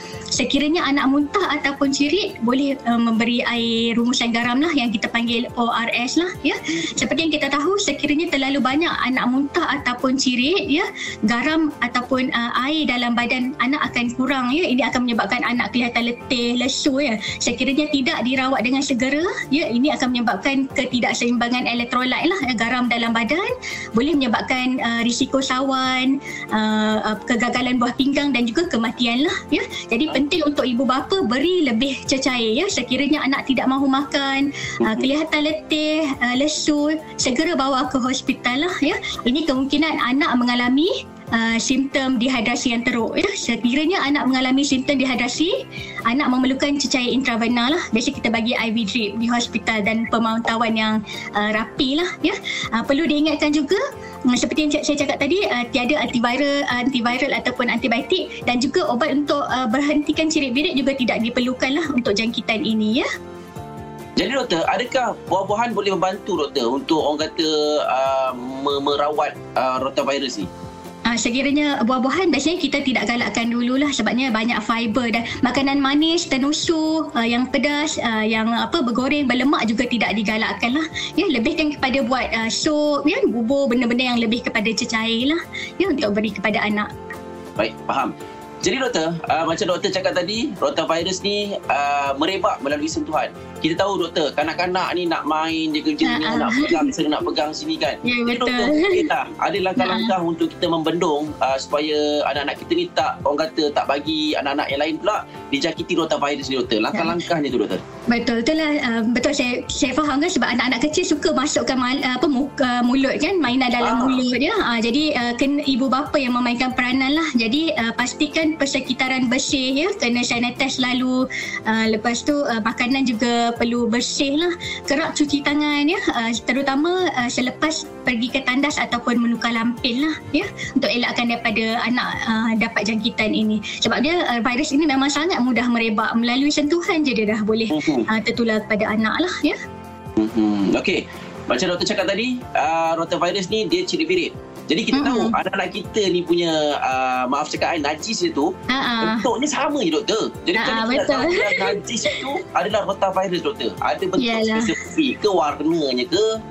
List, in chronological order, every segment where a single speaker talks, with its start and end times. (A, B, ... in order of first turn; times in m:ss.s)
0:00.3-0:45.5 A
0:34.8-0:35.1 B
0:46.1-1:03.0 A
1:04.2-1:10.5 B
1:11.1-1:26.9 A
1:27.6-1:47.8 B
1:36.0-1:36.9 A
1:38.0-1:39.1 A
1:39.8-1:40.1 A
1:48.1-2:19.6 A
1:53.8-1:54.2 B
2:17.7-2:18.1 B
2:20.2-2:36.3 B
2:24.9-2:25.4 A
2:28.7-2:29.3 A
2:30.6-2:32.2 A
2:34.2-2:34.7 A